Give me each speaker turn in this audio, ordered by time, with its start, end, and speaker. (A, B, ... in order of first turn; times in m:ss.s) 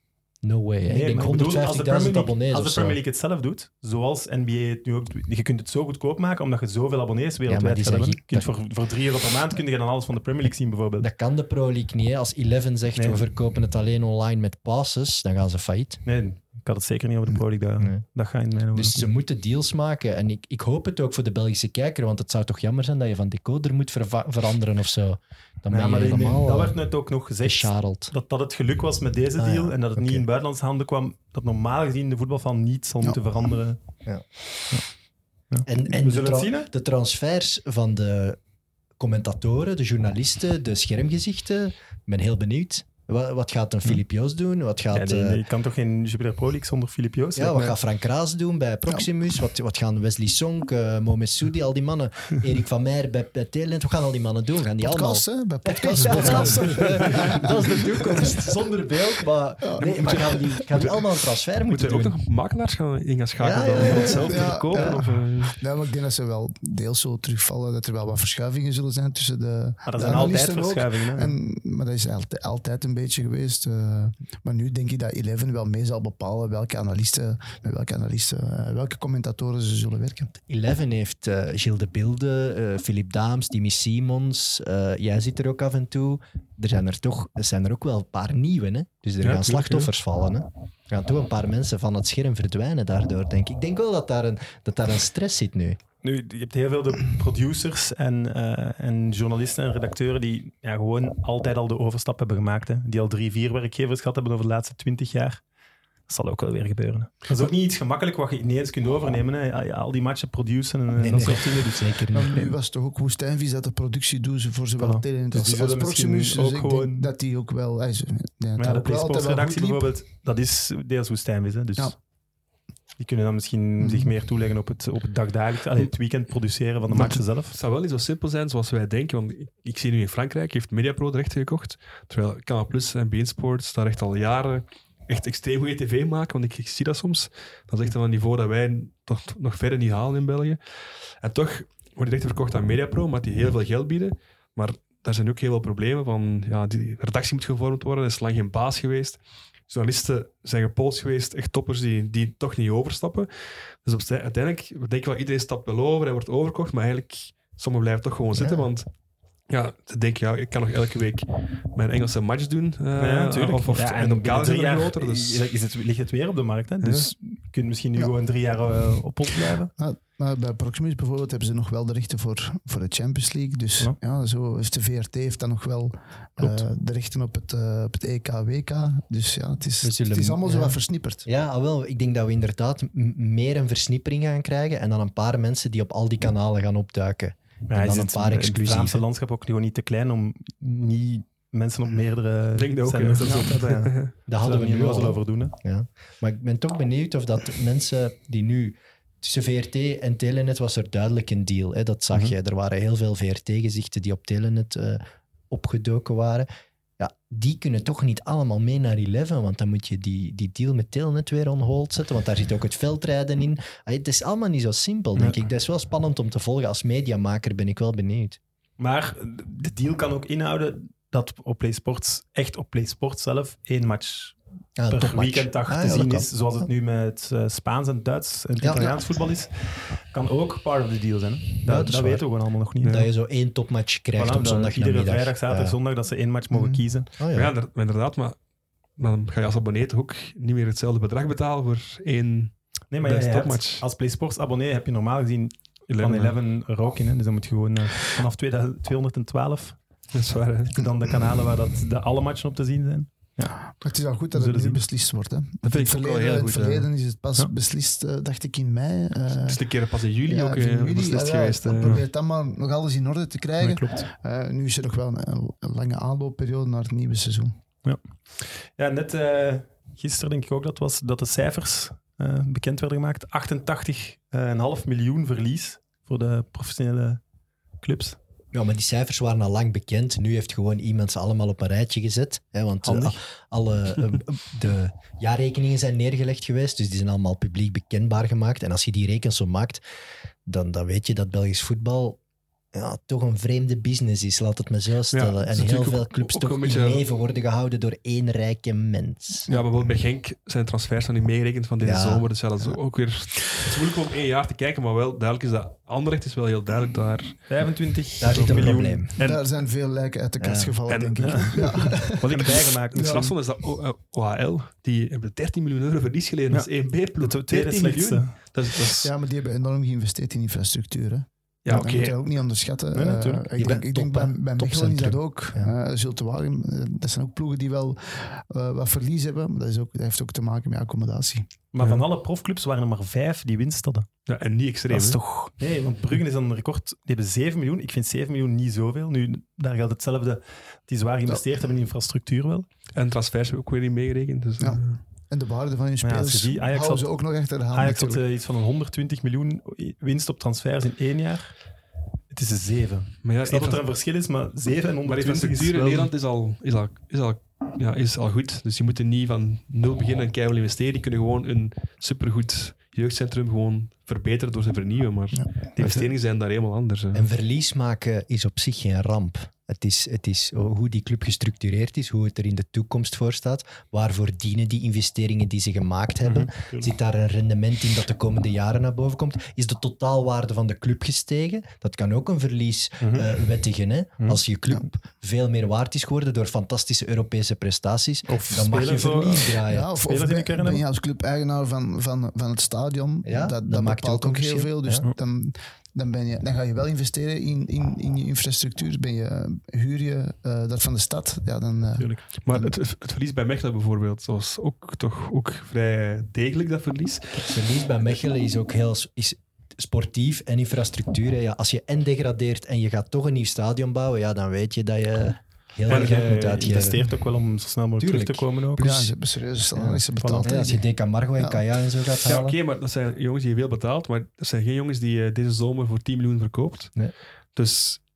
0:00.4-0:03.0 A
0:00.9-0:11.1 B
0:07.5-0:08.5 A
0:11.0-0:16.0 A
0:13.0-0:13.2 B
0:16.0-0:19.0 B
0:17.3-0:18.0 A
0:18.7-0:28.1 A
0:25.7-0:33.8 B
0:29.4-0:30.3 A
0:35.5-0:36.7 B
0:35.6-0:38.4 A
0:39.0-0:45.4 A
0:44.9-0:47.8 B
0:47.4-1:02.2 A
0:54.8-0:58.4 C
0:57.1-0:57.5 B
0:59.6-1:00.6 C
1:01.7-1:05.6 D
1:03.4-1:05.0 A
1:03.9-1:20.3 C
1:09.8-1:11.4 B
1:20.5-1:35.8 A
1:29.2-1:29.9 D
1:36.0-1:45.5 B
1:46.1-1:52.5 B
1:51.0-1:52.5 A
1:52.1-1:59.9 C
1:54.8-1:57.1 B
1:58.6-2:02.0 B
2:03.0-2:07.6 B
2:03.8-2:04.1 C
2:06.9-2:38.9 D
2:38.3-2:38.7 A
2:39.5-2:45.4 D
2:43.0-2:49.7 B
2:46.8-2:47.1 D
2:49.8-3:01.3 C
2:59.8-3:09.0 A
3:07.7-3:15.5 B
3:08.3-3:08.7 D
3:12.6-3:14.1 D
3:13.2-3:13.8 C
3:14.3-3:26.5 A
3:27.0-3:38.4 A
3:38.8-3:44.4 B
3:44.8-3:46.3 A
3:44.9-3:53.1 B
3:48.6-3:49.0 A
3:51.6-3:52.2 A
3:52.8-3:53.1 D
3:52.8-3:55.8 A
3:54.2-3:57.1 B
3:56.5-3:56.8 C
3:57.2-3:57.5 A
3:57.3-3:58.4 D
3:59.0-4:03.8 D
4:02.9-4:09.8 B
4:05.9-4:06.4 D
4:10.1-4:10.8 D
4:10.7-4:13.7 B
4:13.7-4:27.6 C
4:14.3-4:14.8 B
4:15.6-4:16.9 D
4:19.4-4:22.0 D
4:23.6-4:24.0 B
4:27.8-4:37.2 B
4:37.8-4:38.2 B
4:38.5-4:49.8 A
4:42.8-4:43.2 B
4:50.5-4:52.2 A
4:52.7-4:59.5 A
4:55.1-4:57.0 D
4:59.5-5:07.6 D
5:01.8-5:02.3 A
5:07.5-5:09.1 B
5:08.2-5:09.1 A
5:08.2-5:09.4 D
5:09.2-5:12.3 C
5:10.4-5:10.8 A
5:10.9-5:19.1 D
5:11.2-5:13.3 B
5:13.0-5:13.3 C
5:16.5-5:18.4 B
5:19.0-5:31.5 C
5:21.6-5:22.2 D
5:22.9-5:24.4 B
5:23.6-5:25.7 A
5:31.7-5:34.1 B
5:34.3-5:35.2 D
5:34.9-5:42.7 B
5:43.0-5:45.0 D
5:44.6-5:48.2 C
5:46.0-5:47.1 B
5:47.7-5:51.6 B
5:52.3-5:56.1 B
5:53.2-5:53.8 D
5:55.0-6:07.3 D
6:05.8-6:06.1 B
6:07.1-6:30.0 A
6:16.2-6:16.9 B
6:23.0-6:23.3 B
6:28.3-6:30.8 B
6:29.7-6:42.7 C
6:33.2-6:35.1 A
6:42.0-6:42.2 B
6:42.4-6:47.6 D
6:47.5-6:57.1 A
6:55.9-6:59.1 B
6:58.0-6:59.0 A
6:58.8-7:01.6 C
6:59.8-7:02.6 A
7:00.2-7:00.5 B
7:02.2-7:08.0 D